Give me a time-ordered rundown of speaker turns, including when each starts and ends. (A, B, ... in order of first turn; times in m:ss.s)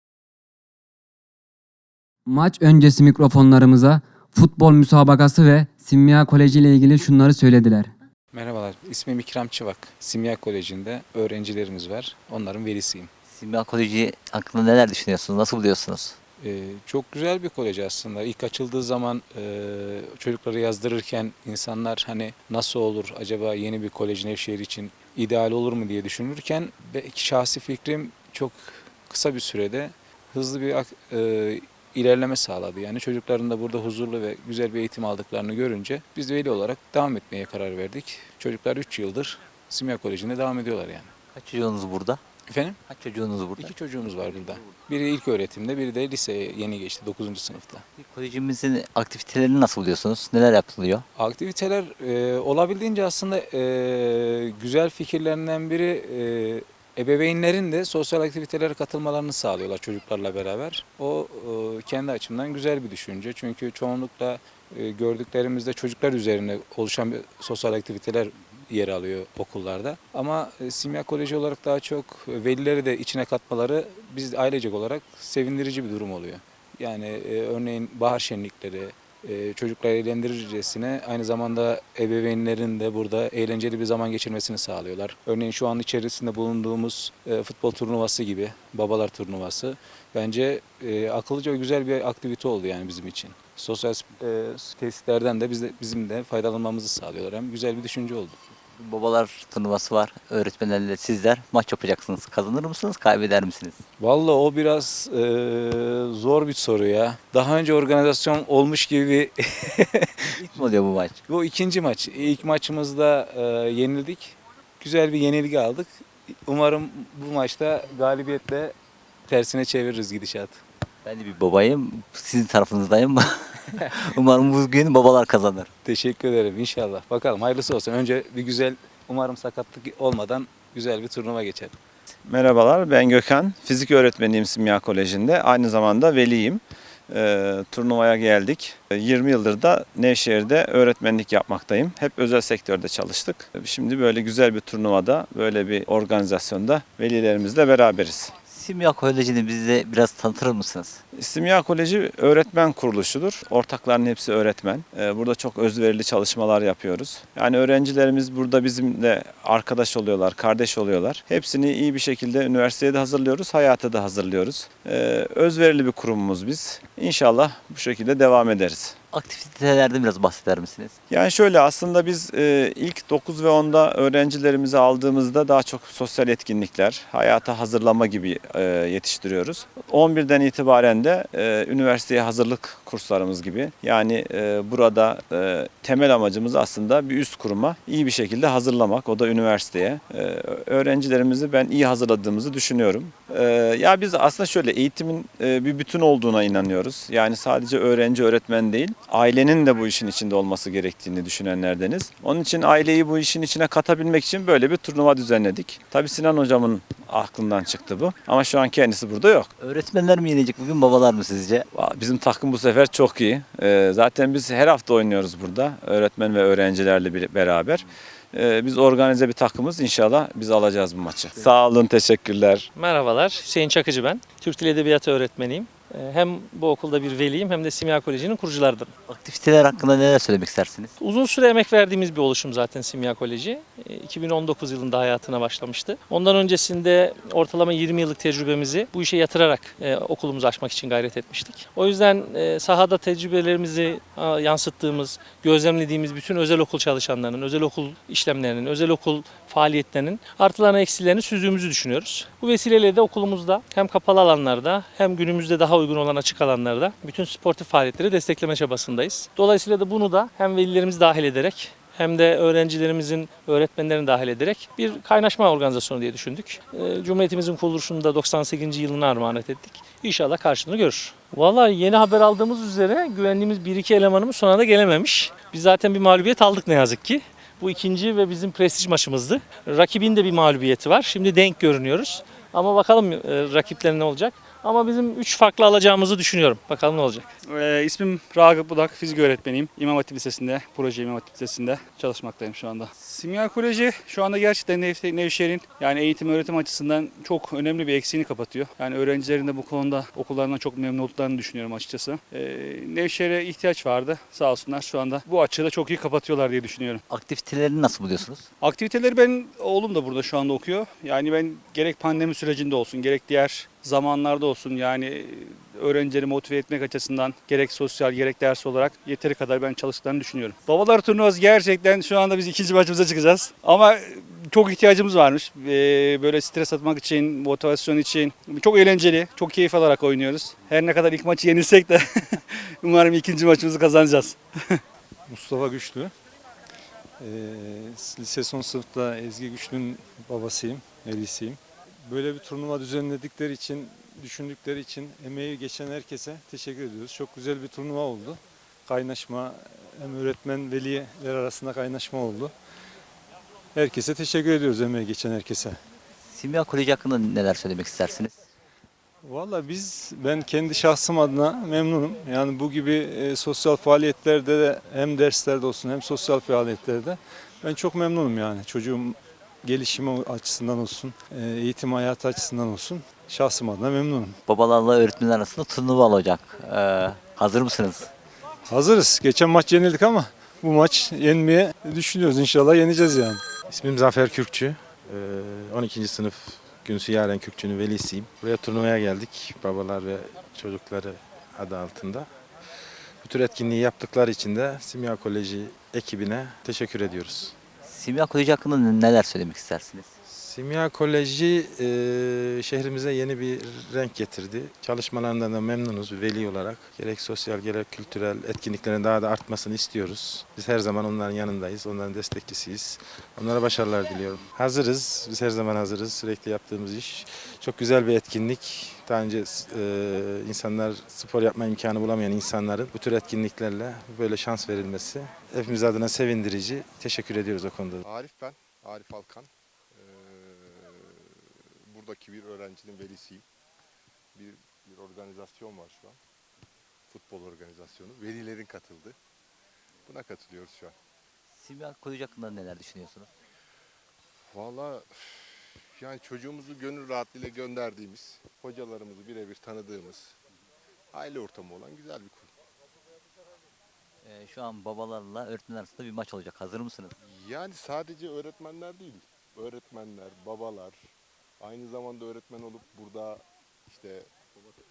0:02.3-0:07.9 A
0:08.3-0:13.1 B
0:13.3-0:16.2 C
0:16.4-0:41.1 B
0:41.3-0:42.2 C
0:42.5-0:42.8 B
0:42.9-0:43.7 C
0:43.6-0:47.8 B
0:48.0-0:51.0 C
0:51.2-1:38.4 B
1:38.8-1:43.8 C
1:44.0-1:50.4 B
1:50.4-1:51.2 C
1:51.3-1:58.8 B
1:59.3-2:00.6 B
2:01.0-2:03.3 C
2:04.0-2:05.7 C
2:05.8-2:11.8 B
2:12.3-2:28.3 D
2:28.5-2:31.0 C
2:31.2-2:49.0 D
2:49.1-2:50.9 C
2:51.1-3:29.5 D
3:29.6-3:31.6 C
3:31.7-3:42.7 D
3:42.8-3:48.9 E
3:49.1-3:50.9 C
3:51.0-4:47.3 E
4:47.5-5:07.0 F
5:07.1-5:08.4 C
5:08.6-5:34.8 F
5:35.3-5:36.1 G
5:37.2-5:52.5 G
5:53.8-5:55.8 G
5:56.3-5:58.3 C
5:59.2-6:14.4 G
6:14.5-6:18.1 C
6:18.7-6:23.4 G
6:23.7-6:32.3 H
6:33.2-6:37.6 H
6:37.9-6:40.1 C
6:40.3-7:08.0 H
7:08.0-7:13.4 I
7:14.4-7:16.2 I
7:17.1-7:19.2 I
7:20.1-7:21.0 I
7:21.6-7:23.3 C
7:24.5-7:30.4 I
7:31.1-7:32.5 I
7:34.2-7:37.1 C
7:37.2-7:41.0 I
7:41.6-7:44.3 I